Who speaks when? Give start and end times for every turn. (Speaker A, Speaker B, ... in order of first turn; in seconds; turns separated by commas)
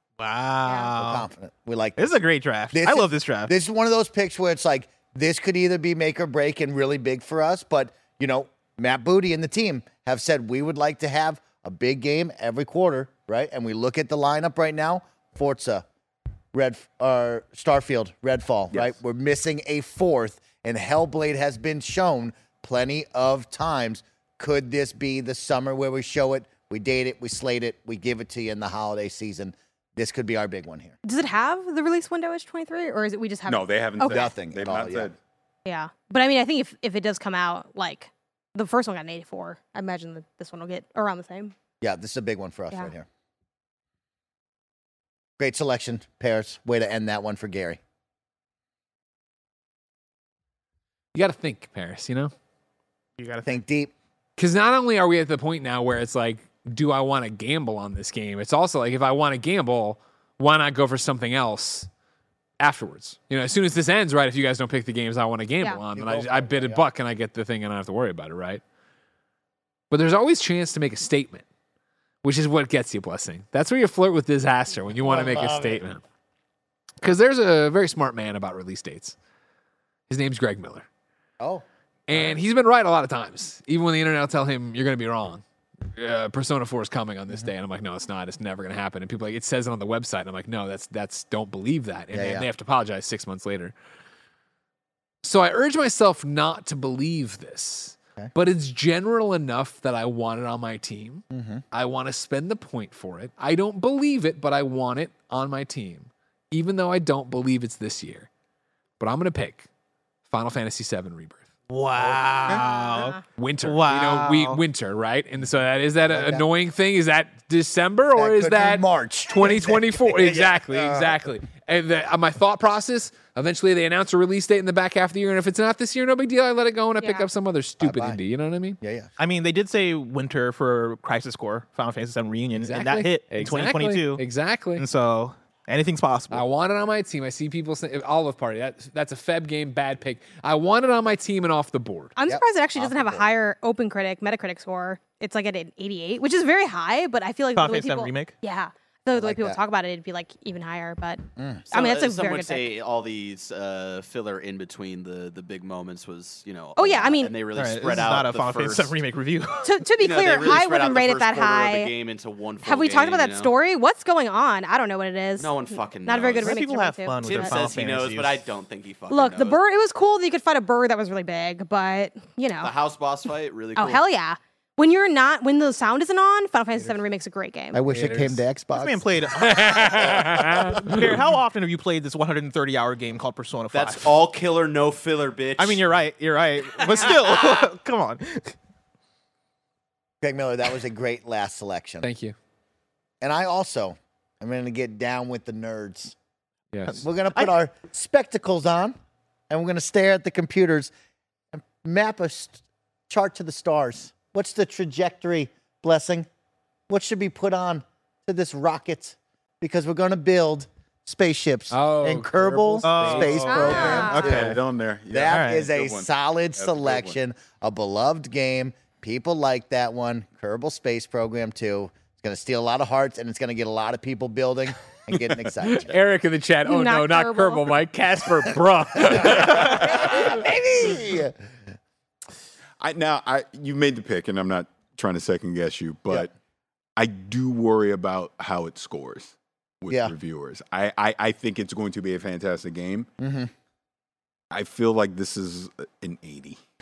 Speaker A: 0.2-1.3, Speaker B: 1.0-2.2, Speaker A: 2.0-3.5, Speaker B: 2.7-15.8, Speaker B: 16.5-31.0, Speaker C: 31.1-34.4, Speaker D: 33.5-35.2, Speaker B: 34.0-35.1, Speaker C: 35.6-41.5, Speaker B: 41.8-43.1, Speaker B: 45.4-47.8, Speaker E: 51.1-52.3, Speaker A: 53.2-53.6, Speaker B: 53.5-53.9, Speaker E: 54.4-61.9, Speaker E: 62.6-68.6, Speaker B: 66.0-66.8, Speaker E: 69.9-71.4, Speaker E: 72.2-76.0, Speaker B: 75.0-75.8, Speaker E: 77.0-79.2, Speaker E: 80.1-80.9, Speaker B: 81.4-82.3, Speaker E: 82.1-85.4, Speaker E: 86.0-93.7, Speaker B: 92.1-92.5, Speaker E: 95.2-108.3, Speaker B: 101.3-101.6, Speaker E: 109.0-109.7, Speaker E: 110.3-111.5, Speaker A: 111.7-114.6, Speaker B: 112.0-112.6, Speaker C: 112.6-113.2, Speaker E: 113.4-128.8, Speaker B: 116.1-116.5, Speaker B: 118.2-121.2, Speaker C: 127.0-127.3, Speaker B: 127.8-128.2, Speaker B: 128.8-129.1, Speaker A: 129.2-134.2, Speaker E: 132.6-134.8, Speaker A: 134.8-136.4, Speaker E: 136.3-142.1, Speaker C: 142.2-152.7, Speaker B: 142.3-143.3, Speaker A: 147.6-148.3, Speaker B: 149.2-149.6, Speaker B: 151.4-151.7, Speaker F: 151.7-158.9, Speaker C: 156.8-157.3, Speaker A: 157.6-159.7, Speaker C: 159.6-161.9, Speaker F: 160.0-163.5, Speaker C: 162.6-167.6, Speaker F: 165.4-166.6, Speaker A: 166.4-168.4, Speaker F: 167.2-169.6, Speaker C: 169.1-172.7, Speaker F: 172.6-174.0, Speaker C: 173.8-177.8, Speaker B: 177.7-179.0, Speaker E: 177.9-178.4, Speaker A: 178.7-180.1, Speaker E: 179.3-181.1, Speaker B: 180.4-180.8, Speaker A: 180.7-184.1, Speaker F: 183.7-185.8, Speaker A: 185.6-188.6, Speaker B: 190.2-192.1, Speaker E: 192.0-192.3, Speaker B: 193.2-196.2, Speaker E: 196.7-197.0, Speaker A: 196.8-197.5, Speaker B: 197.0-199.0, Speaker B: 199.5-200.9, Speaker B: 201.5-206.3, Speaker B: 206.9-214.6, Speaker E: 211.7-214.1, Speaker A: 212.8-214.6, Speaker C: 213.5-214.3, Speaker D: 214.1-217.2, Speaker B: 215.1-225.9, Speaker A: 215.3-215.7, Speaker E: 225.7-230.4, Speaker C: 226.7-227.7, Speaker B: 229.0-231.4, Speaker D: 232.8-236.3, Speaker D: 237.0-243.1, Speaker B: 243.2-243.5, Speaker D: 244.5-246.6